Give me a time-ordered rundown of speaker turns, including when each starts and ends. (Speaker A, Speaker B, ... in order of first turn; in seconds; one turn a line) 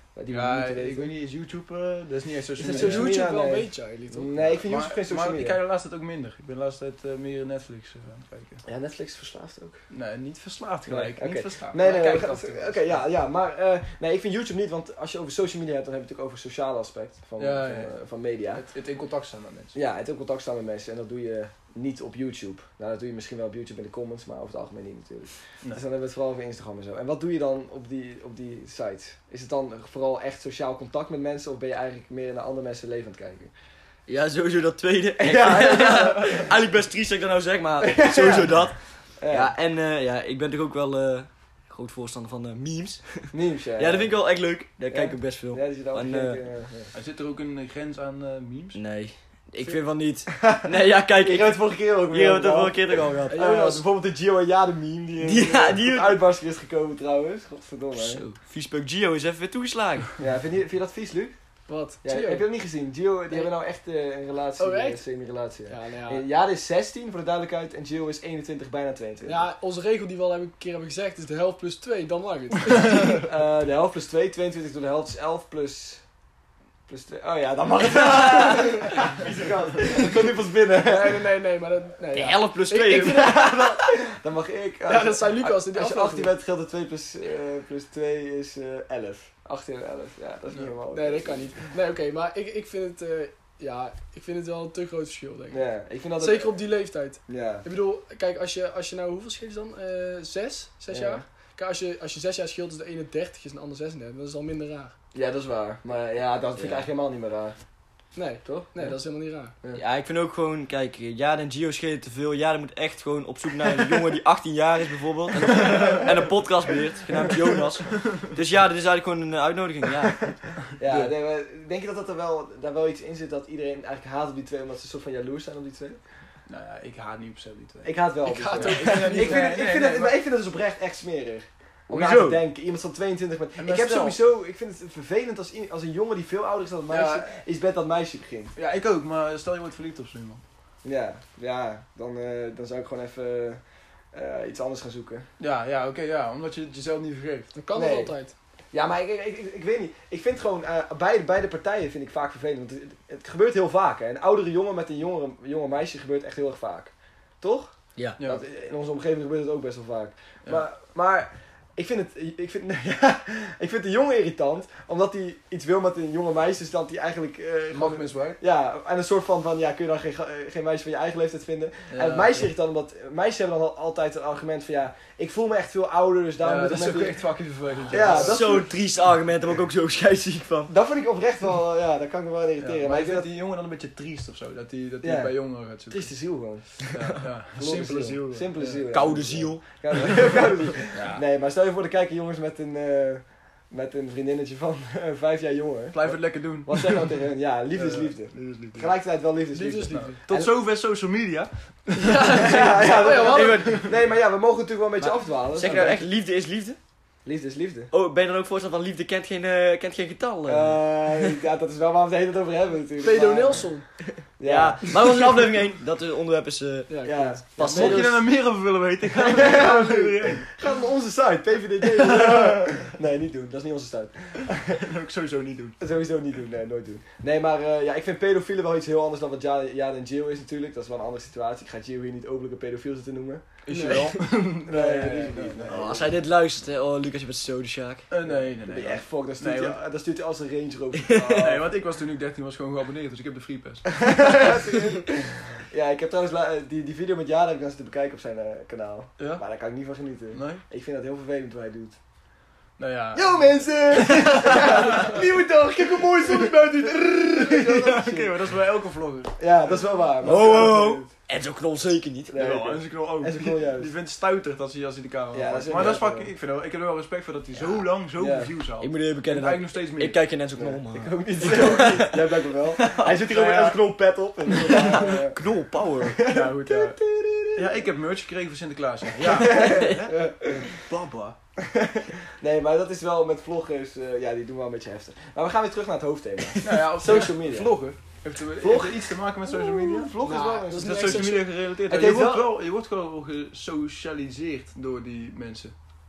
Speaker A: 0.1-1.1
Speaker B: 0.3-3.1
Speaker C: 2.6-4.5
Speaker A: 2.6-5.6
Speaker B: 4.7-8.6
Speaker A: 8.6-9.8
Speaker B: 9.9-12.9
Speaker A: 10.8-18.6
Speaker B: 17.4-17.9
Speaker B: 18.5-19.8
Speaker A: 19.7-33.5
Speaker D: 34.1-46.4
Speaker A: 35.2-36.5
Speaker A: 37.8-38.6
Speaker A: 39.2-39.5
Speaker A: 43.3-44.1
Speaker A: 44.9-46.9
Speaker B: 46.9-48.8
Speaker D: 48.7-53.5
Speaker A: 50.4-58.2
Speaker C: 53.3-53.8
Speaker D: 55.2-56.2
Speaker D: 58.0-60.2
Speaker A: 60.2-61.4
Speaker C: 61.7-62.4
Speaker A: 62.0-69.4
Speaker C: 64.6-65.0
Speaker C: 65.7-66.2
Speaker C: 69.2-73.2
Speaker A: 72.9-76.0
Speaker A: 76.9-81.2
Speaker C: 80.8-83.6
Speaker D: 82.1-83.8
Speaker A: 82.9-91.5
Speaker C: 84.9-86.3
Speaker C: 90.9-95.6
Speaker A: 95.5-96.5
Speaker C: 96.2-104.9
Speaker A: 97.3-97.6
Speaker A: 100.9-101.2
Speaker A: 105.1-107.6
Speaker D: 106.6-106.8
Speaker C: 108.1-109.5
Speaker A: 108.4-108.9
Speaker D: 109.7-120.3
Speaker B: 115.5-116.0
Speaker A: 115.6-116.0
Speaker A: 120.8-126.0
Speaker B: 120.8-121.1
Speaker B: 126.5-127.9
Speaker A: 127.8-138.5
Speaker C: 128.2-129.7
Speaker B: 128.6-130.2
Speaker D: 131.9-132.4
Speaker B: 133.6-134.2
Speaker B: 136.9-137.3
Speaker B: 138.6-140.4
Speaker A: 140.8-143.6
Speaker A: 144.1-145.3
Speaker B: 145.4-147.5
Speaker C: 147.5-148.3
Speaker A: 147.7-148.1
Speaker A: 148.7-177.2
Speaker B: 167.7-168.4
Speaker B: 171.9-172.5
Speaker B: 176.4-178.4
Speaker A: 177.9-178.7
Speaker D: 178.0-180.7
Speaker A: 180.7-183.3
Speaker B: 182.6-186.1
Speaker A: 185.0-185.3
Speaker A: 185.9-186.8
Speaker B: 186.9-188.8
Speaker A: 187.5-200.5
Speaker D: 188.9-190.2
Speaker D: 190.9-191.2
Speaker B: 195.9-197.1
Speaker B: 197.7-198.9
Speaker C: 199.5-200.2
Speaker B: 199.9-202.9
Speaker C: 202.0-203.8
Speaker A: 202.4-206.0
Speaker D: 203.2-203.9
Speaker B: 203.6-203.8
Speaker D: 205.5-206.8
Speaker B: 205.7-205.9
Speaker A: 207.2-207.9
Speaker D: 207.9-211.3
Speaker A: 210.5-213.7
Speaker C: 213.0-213.9
Speaker A: 214.4-215.4
Speaker D: 214.4-218.2
Speaker C: 216.9-217.4
Speaker A: 217.0-218.0
Speaker B: 217.7-220.5
Speaker A: 219.2-224.8
Speaker B: 221.8-222.8
Speaker B: 224.7-225.8
Speaker A: 225.8-233.4
Speaker B: 233.7-236.0
Speaker C: 233.7-234.2
Speaker A: 234.7-236.2
Speaker D: 235.7-238.1
Speaker B: 238.1-239.7
Speaker A: 238.2-241.7
Speaker D: 241.0-241.4
Speaker B: 241.3-244.6
Speaker A: 244.0-252.0
Speaker B: 249.2-249.4
Speaker B: 250.3-250.6
Speaker B: 252.8-255.2
Speaker A: 253.1-258.3
Speaker B: 255.9-259.8
Speaker A: 259.4-261.1
Speaker D: 260.2-262.5
Speaker B: 260.3-260.7
Speaker A: 262.3-263.9
Speaker B: 262.4-270.1
Speaker A: 265.3-266.3
Speaker A: 267.7-268.5
Speaker D: 268.8-273.8
Speaker A: 270.6-275.4
Speaker B: 271.4-272.0
Speaker D: 274.5-276.2
Speaker B: 274.6-275.2
Speaker A: 276.0-277.9
Speaker B: 276.2-277.0
Speaker B: 277.6-279.9
Speaker D: 279.2-280.8
Speaker A: 279.3-280.7
Speaker B: 280.8-281.4
Speaker A: 281.6-287.7
Speaker B: 286.6-290.1
Speaker A: 288.6-292.5
Speaker C: 290.2-291.4
Speaker B: 290.8-295.7